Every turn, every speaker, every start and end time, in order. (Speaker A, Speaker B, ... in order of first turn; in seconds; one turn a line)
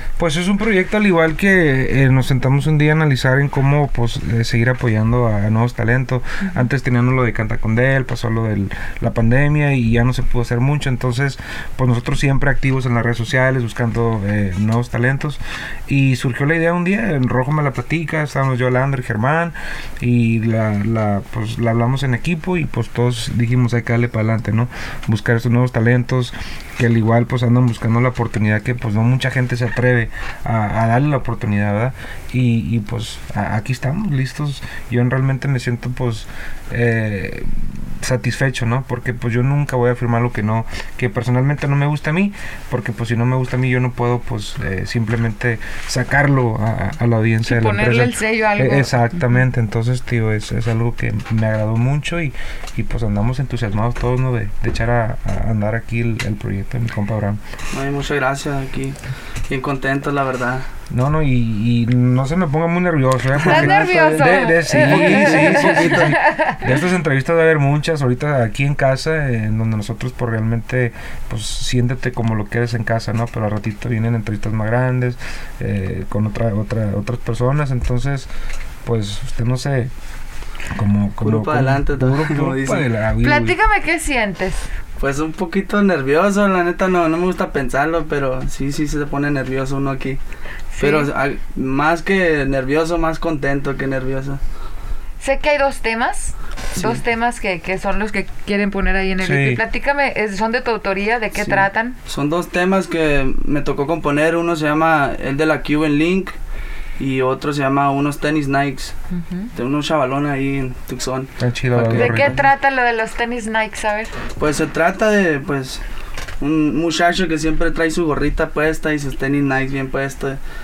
Speaker A: 0.2-57.4
Speaker B: 47.4-49.2
Speaker C: 57.7-60.6
Speaker A: 60.9-78.3
Speaker C: 63.4-66.0
Speaker B: 63.4-66.7
Speaker A: 78.8-79.9
Speaker A: 80.7-83.6
Speaker C: 81.2-82.8
Speaker B: 83.2-84.6
Speaker C: 85.0-90.2
Speaker B: 90.7-91.1
Speaker C: 90.8-94.4
Speaker B: 95.2-102.0
Speaker C: 96.7-97.0
Speaker A: 99.2-99.6
Speaker C: 101.3-106.3
Speaker C: 107.0-109.0
Speaker B: 109.1-109.5
Speaker C: 109.5-112.5
Speaker A: 111.4-112.4
Speaker B: 111.9-114.1
Speaker C: 114.4-115.8
Speaker C: 116.4-120.4